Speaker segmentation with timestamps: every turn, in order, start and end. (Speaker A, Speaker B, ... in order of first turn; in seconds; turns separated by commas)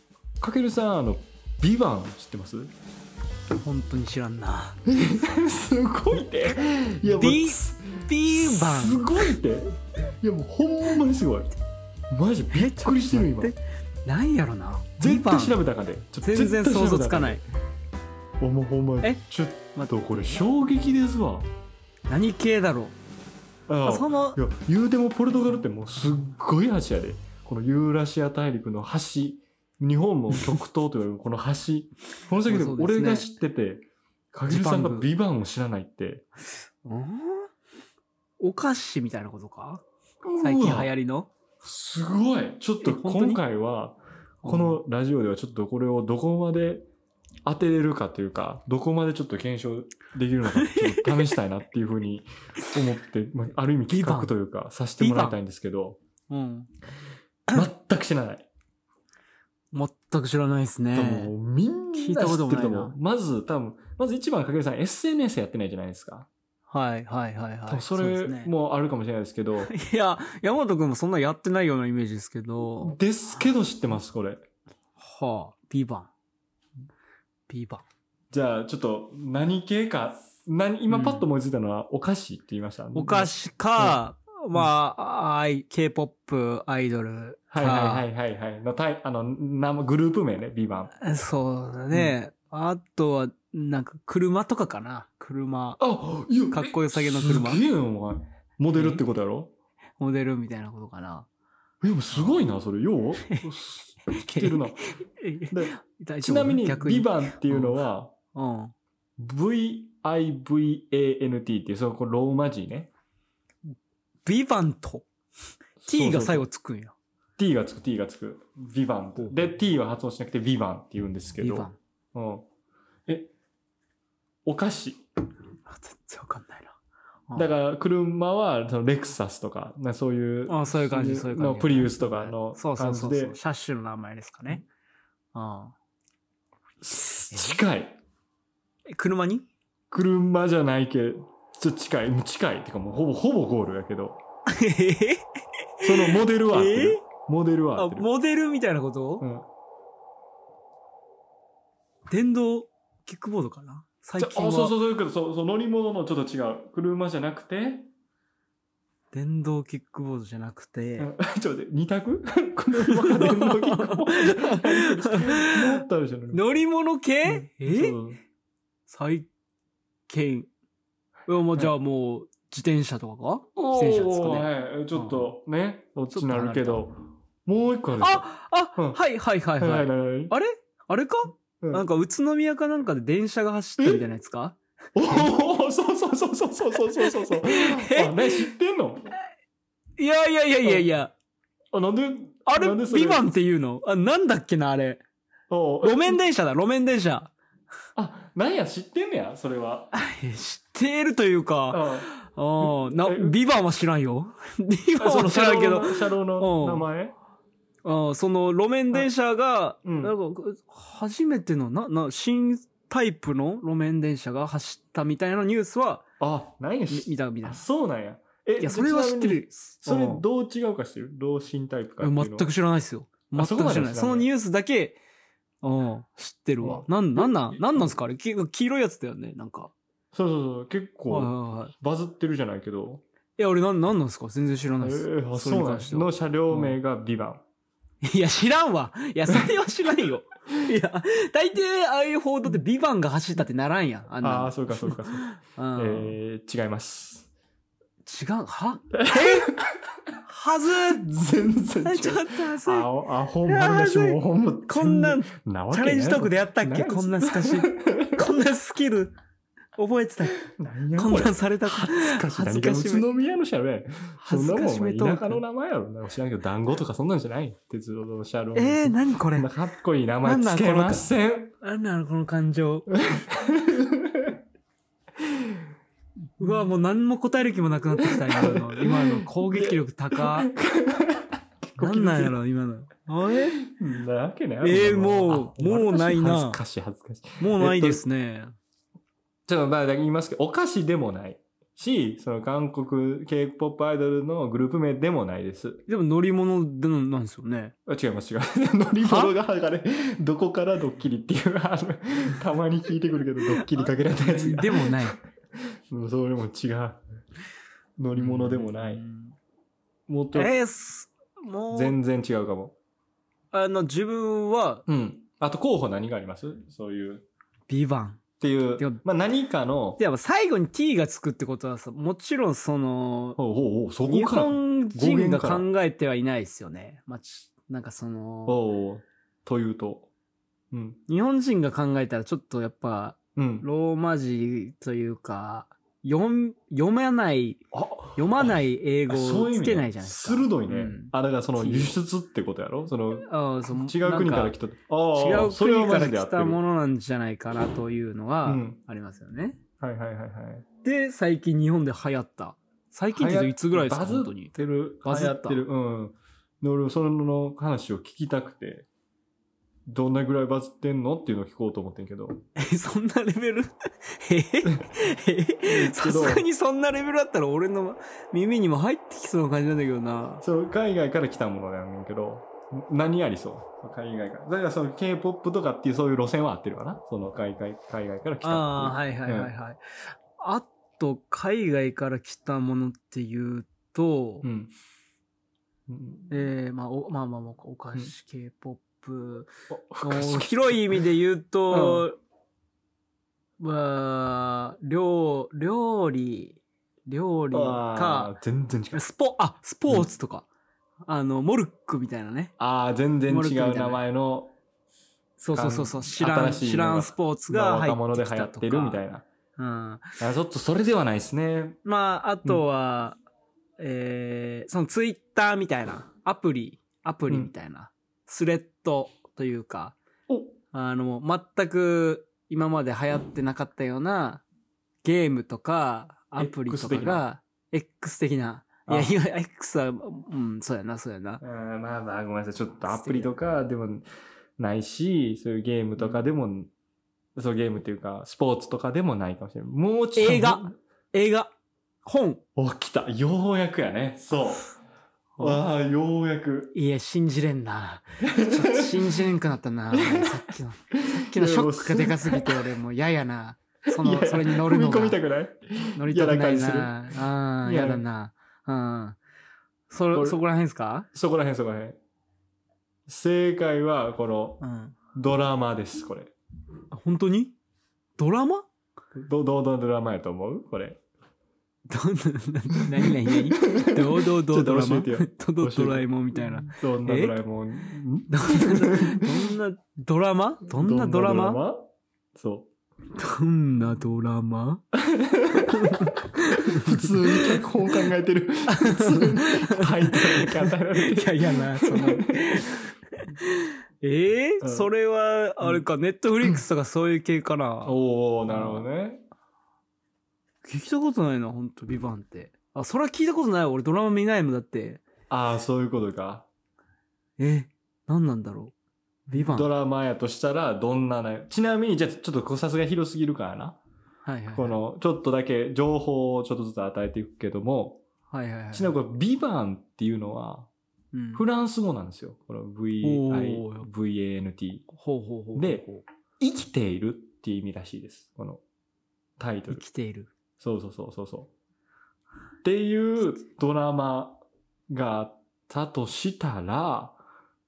Speaker A: 0.4-2.7, Speaker B: 3.6-4.8, Speaker A: 4.8-11.5, Speaker B: 7.1-9.3, Speaker A: 12.1-13.5, Speaker B: 12.5-15.6, Speaker A: 15.0-17.4, Speaker B: 16.2-17.4, Speaker A: 18.4-21.5, Speaker B: 19.7-20.4, Speaker B: 22.1-22.9, Speaker A: 23.7-36.2, Speaker B: 23.8-24.4, Speaker B: 32.5-33.3, Speaker B: 34.5-35.1, Speaker B: 36.8-37.5, Speaker B: 38.4-39.8, Speaker A: 40.2-40.9, Speaker B: 40.4-41.3, Speaker A: 41.6-46.9, Speaker B: 42.8-43.4, Speaker B: 44.4-44.8, Speaker A: 47.5-56.0, Speaker B: 50.5-51.3, Speaker B: 53.9-54.3, Speaker B: 55.0-55.4, Speaker B: 56.3-56.7, Speaker A: 57.5-58.5, Speaker B: 59.7-61.3, Speaker A: 60.9-66.3, Speaker B: 61.9-63.0, Speaker B: 66.7-68.5, Speaker A: 67.7-69.7, Speaker B: 69.7-73.0, Speaker A: 72.8-74.5, Speaker B: 75.0-76.1, Speaker B: 77.5-77.8, Speaker A: 78.3-84.0, Speaker B: 80.9-81.2, Speaker B: 82.9-88.0, Speaker A: 87.5-90.9, Speaker B: 91.0-95.8, Speaker A: 95.8-99.5, Speaker B: 96.5-97.6, Speaker B: 98.7-99.0, Speaker B: 100.0-101.3, Speaker A: 101.8-104.8, Speaker B: 102.1-102.4, Speaker B: 104.1-107.8, Speaker A: 105.5-108.1, Speaker B: 108.3-108.7, Speaker A: 109.2-112.9, Speaker B: 114.2-115.0, Speaker A: 115.8-116.4, Speaker B: 115.8-116.9, Speaker A: 117.4-122.5, Speaker B: 121.4-121.8, Speaker A: 124.4-125.0, Speaker B: 125.7-126.7, Speaker A: 127.3-133.3, Speaker B: 130.5-134.6, Speaker B: 135.3-135.7, Speaker A: 136.8-138.0, Speaker B: 137.3-137.6, Speaker B: 138.9-139.4, Speaker A: 139.9-144.2, Speaker B: 144.5-145.2, Speaker B: 145.8-147.0, Speaker A: 145.8-148.1, Speaker B: 147.8-149.2, Speaker A: 149.2-149.4, Speaker B: 152.1-154.8, Speaker A: 154.2-157.9, Speaker B: 159.1-161.1, Speaker A: 161.0-166.4, Speaker B: 162.8-168.0, Speaker A: 167.2-168.2, Speaker B: 168.9-169.3, Speaker B: 170.1-170.5, Speaker B: 171.3-175.3, Speaker A: 173.6-179.0, Speaker B: 176.1-176.8, Speaker B: 178.0-185.3, Speaker A: 179.6-180.3, Speaker A: 184.9-189.1, Speaker B: 186.9-188.5, Speaker B: 190.0-191.1, Speaker A: 191.7-193.2, Speaker B: 192.5-195.0, Speaker A: 195.5-196.2, Speaker B: 195.8-197.3, Speaker A: 197.9-199.9, Speaker B: 199.9-206.9, Speaker A: 201.7-202.1, Speaker A: 202.6-203.3, Speaker A: 205.0-207.1, Speaker B: 207.8-216.0, Speaker A: 209.8-210.1, Speaker A: 216.2-222.5, Speaker B: 216.9-217.6, Speaker B: 218.6-220.2, Speaker B: 222.0-225.0, Speaker A: 223.3-224.3, Speaker B: 225.6-229.7, Speaker A: 226.6-227.9, Speaker A: 230.1-233.0, Speaker B: 231.1-231.7, Speaker B: 233.4-236.8, Speaker A: 234.8-237.4, Speaker B: 238.0-246.2, Speaker A: 244.2-247.3, Speaker B: 248.0-249.5, Speaker A: 248.9-249.7, Speaker B: 250.2-251.0, Speaker A: 250.7-258.3, Speaker B: 251.8-252.9, Speaker B: 253.4-259.1, Speaker B: 259.8-260.4, Speaker A: 260.5-271.5, Speaker B: 260.9-263.0, Speaker B: 264.2-265.4, Speaker B: 268.5-269.5, Speaker B: 270.2-271.1, Speaker B: 271.6-272.9, Speaker A: 272.9-274.4, Speaker A: 275.2-275.6, Speaker B: 276.4-280.5, Speaker A: 278.0-282.4, Speaker B: 281.8-283.6, Speaker A: 283.6-288.0, Speaker B: 284.6-286.6, Speaker B: 287.4-288.5, Speaker A: 289.5-295.8, Speaker B: 295.9-297.7, Speaker A: 297.9-305.2, Speaker B: 299.0-299.3, Speaker B: 303.6-305.2, Speaker A: 305.9-307.0, Speaker A: 308.0-309.0, Speaker B: 308.2-309.3, Speaker A: 310.1-310.5, Speaker B: 310.3-311.9, Speaker A: 311.7-312.7, Speaker B: 313.5-314.8, Speaker A: 314.9-317.2, Speaker B: 317.7-318.2, Speaker A: 318.4-320.0, Speaker B: 320.0-323.4, Speaker A: 323.4-325.7, Speaker B: 324.1-328.6, Speaker A: 328.4-330.1, Speaker A: 330.7-331.0, Speaker B: 331.1-337.6, Speaker A: 333.4-333.6, Speaker A: 337.7-338.6, Speaker B: 338.1-342.0, Speaker A: 339.1-346.6, Speaker B: 343.2-344.6, Speaker B: 345.1-349.6, Speaker A: 348.4-348.8, Speaker A: 349.8-350.6, Speaker B: 350.8-355.6, Speaker A: 353.1-358.9, Speaker A: 359.9-362.4, Speaker B: 362.6-370.4, Speaker A: 365.6-366.4, Speaker A: 370.4-379.5, Speaker B: 378.4-384.5, Speaker A: 384.4-384.7, Speaker A: 385.9-386.3, Speaker B: 386.3-389.5, Speaker A: 389.7-391.0, Speaker B: 390.0-392.2, Speaker A: 391.7-392.1, Speaker B: 393.6-398.3, Speaker A: 397.5-399.0, Speaker B: 398.9-400.5, Speaker B: 401.1-402.5, Speaker A: 402.6-404.5, Speaker B: 403.3-404.0, Speaker B: 405.4-409.0, Speaker A: 405.5-409.2, Speaker B: 409.6-410.1, Speaker A: 410.2-411.8, Speaker B: 411.8-413.2, Speaker B: 413.8-420.0, Speaker A: 420.3-420.5, Speaker B: 420.7-424.4, Speaker B: 425.0-431.4, Speaker A: 426.4-427.2, Speaker A: 428.9-429.1, Speaker A: 431.4-434.0, Speaker B: 432.9-433.3, Speaker A: 434.6-436.7, Speaker A: 437.4-440.7, Speaker B: 440.1-441.5, Speaker B: 442.0-442.4, Speaker A: 442.6-444.7, Speaker B: 445.4-445.6, Speaker A: 445.4-446.7, Speaker B: 446.7-455.2, Speaker A: 448.2-449.2, Speaker A: 449.9-452.6, Speaker A: 453.9-457.1, Speaker B: 456.0-459.2, Speaker A: 457.6-458.0, Speaker B: 459.9-461.1, Speaker A: 460.1-460.4, Speaker A: 461.1-462.0, Speaker A: 463.1-464.6, Speaker B: 464.6-465.0, Speaker A: 465.1-466.3, Speaker B: 466.9-467.6, Speaker B: 468.2-468.7, Speaker A: 469.1-471.0, Speaker B: 471.9-477.4, Speaker A: 473.0-479.5, Speaker B: 478.3-481.6, Speaker A: 480.7-482.7, Speaker B: 483.1-484.8, Speaker A: 484.9-492.7, Speaker B: 485.5-487.6, Speaker B: 488.7-498.9, Speaker A: 494.6-494.9, Speaker A: 497.8-499.2, Speaker B: 500.6-505.0, Speaker A: 505.3-506.5, Speaker B: 507.4-508.7, Speaker B: 509.3-509.7, Speaker A: 509.3-513.8, Speaker B: 514.2-514.8, Speaker A: 514.5-518.0, Speaker B: 518.3-518.9, Speaker A: 518.7-520.7, Speaker B: 521.1-521.4, Speaker A: 521.3-524.9, Speaker B: 523.0-523.9, Speaker B: 524.9-526.0, Speaker A: 525.5-525.9, Speaker A: 526.4-528.6, Speaker A: 529.4-529.8, Speaker B: 529.7-530.3, Speaker A: 530.6-531.5, Speaker A: 532.6-537.2